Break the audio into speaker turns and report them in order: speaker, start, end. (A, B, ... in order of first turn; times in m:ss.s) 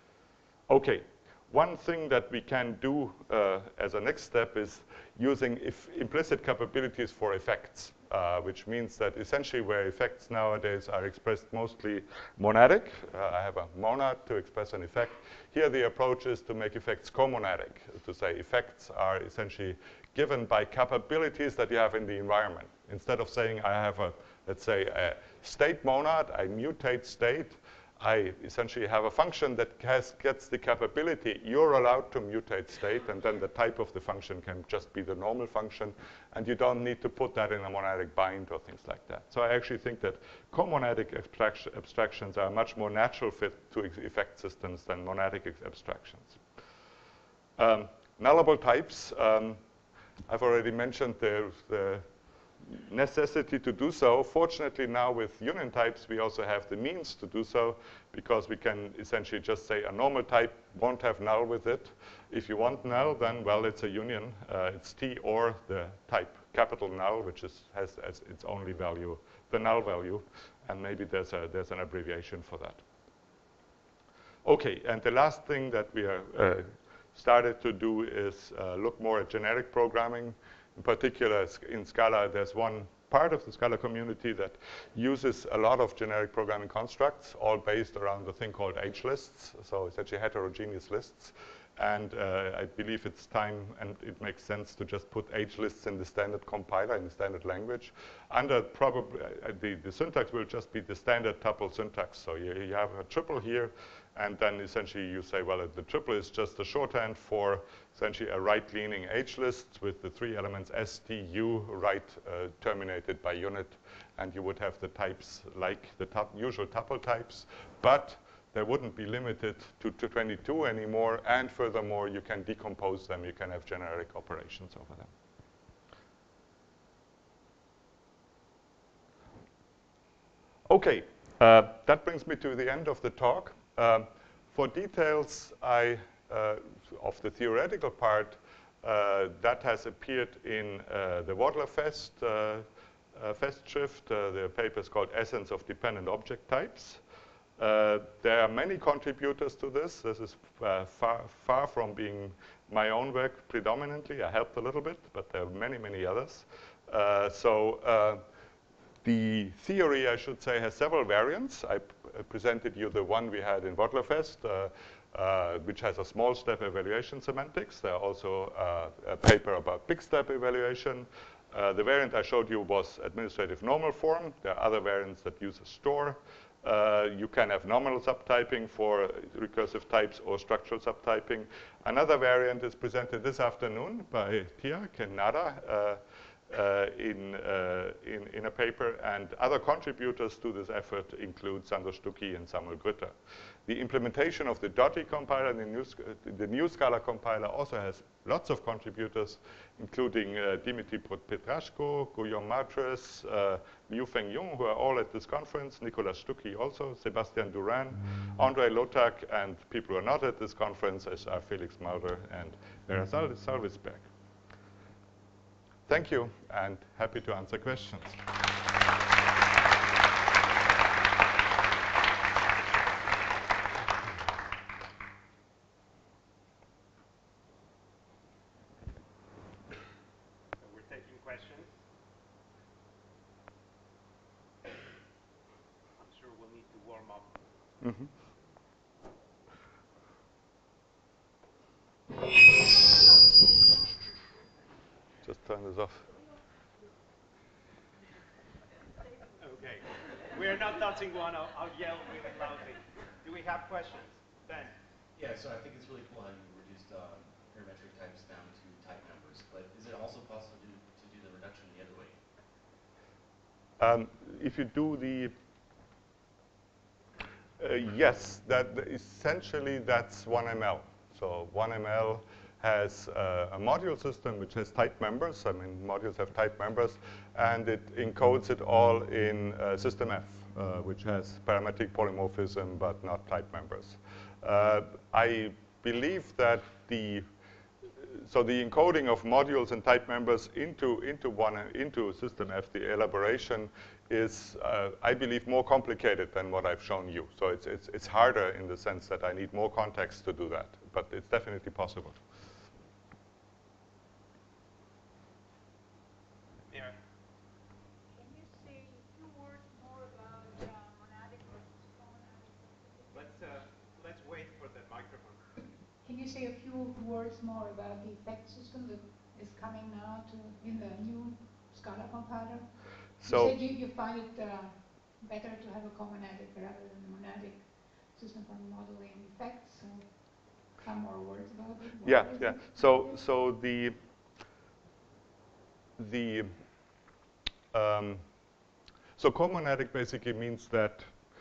0:00.7-0:46.4 A
0:47.6-0:49.6 A
0:50.3-0:52.0 A
0:52.7-1:12.8 A
1:14.4-2:05.1 A
2:10.7-2:27.0 A
2:27.6-2:38.2 A
2:39.0-3:13.1 A
3:13.7-3:34.0 A
3:35.9-3:38.2 A
3:50.6-3:51.7 B
3:56.0-3:57.3 B
3:57.8-3:58.1 A
4:05.2-4:06.1 A
4:09.4-4:14.7 B
4:15.2-4:22.2 C
4:23.8-4:25.3 A
4:27.6-4:47.2 A
4:48.0-5:02.2 A
5:06.7-5:07.0 B
5:08.1-5:13.2 D
5:13.1-5:15.5 B
5:16.0-5:22.7 D
5:23.2-5:23.6 A
5:23.2-5:27.6 D
5:28.1-5:30.1 D
5:30.8-5:33.2 D
5:32.0-5:34.0 A
5:36.0-5:36.5 A
5:37.7-5:38.2 A
5:39.2-5:41.0 A